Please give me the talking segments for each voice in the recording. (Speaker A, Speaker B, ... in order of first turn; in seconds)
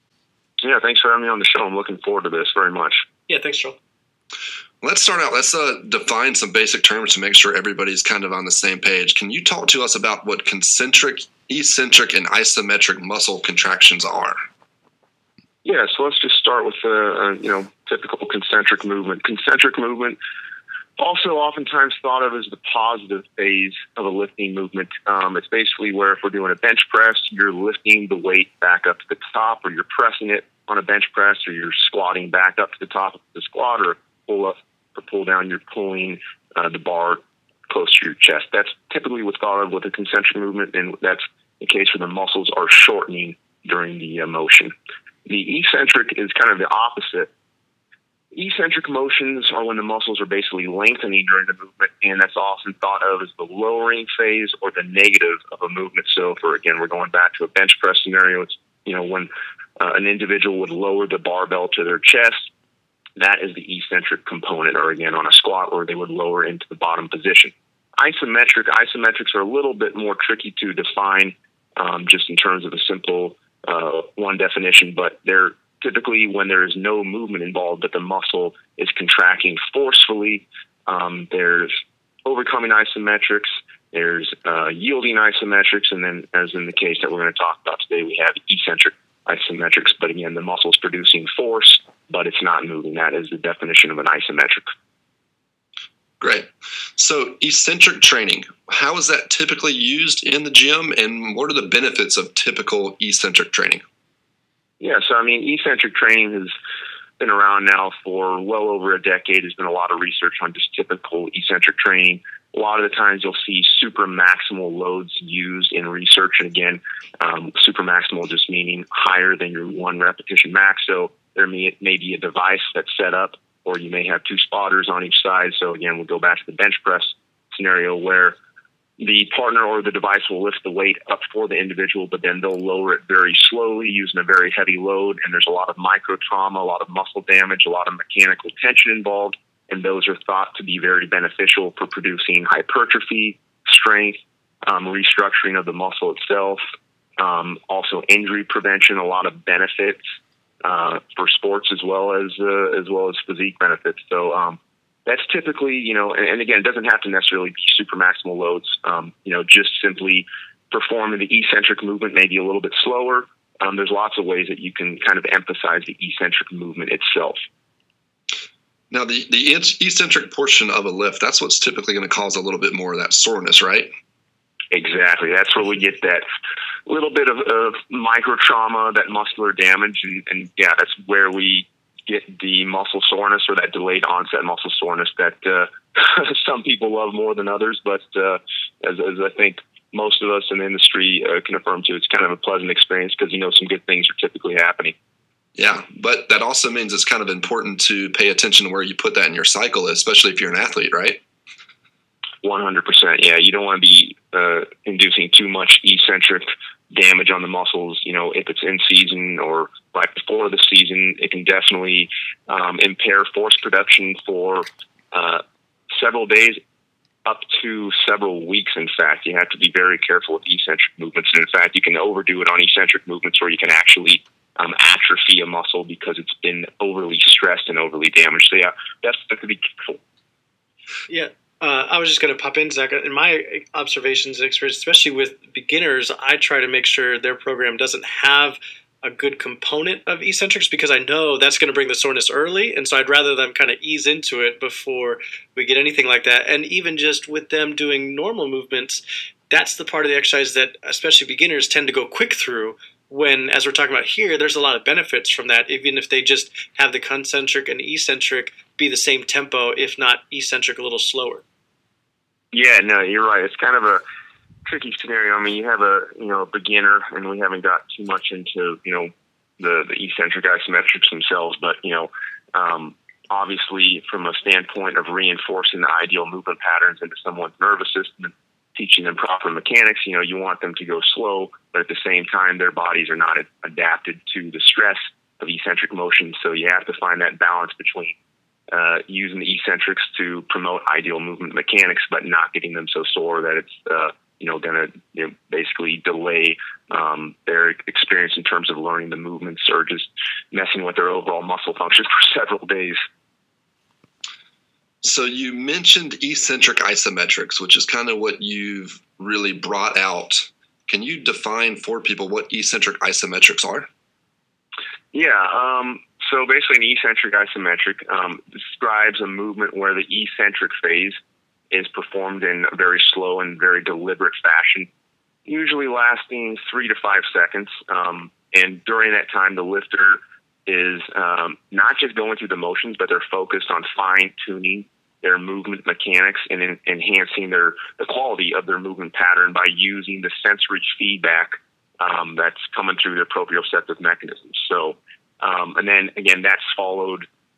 Speaker A: 0.6-3.0, 15.6-20.2, 21.0-44.7, 45.2-47.3, 48.3-62.5, 63.2-94.6, 104.8-106.5, 107.2-128.3, 129.0-146.6, 147.2-150.0, 150.6-167.4, 174.7-176.2, 176.8-194.9, 202.4-216.6, 217.2-230.0, 262.5-264.0, 264.6-288.1, 288.7-303.0, 315.1-321.1, 321.7-324.9, 325.4-347.3
Speaker B: 3.3-3.8, 231.1-261.4
Speaker C: 4.8-14.4, 96.2-103.8, 168.9-173.9, 195.6-201.2, 305.0-313.9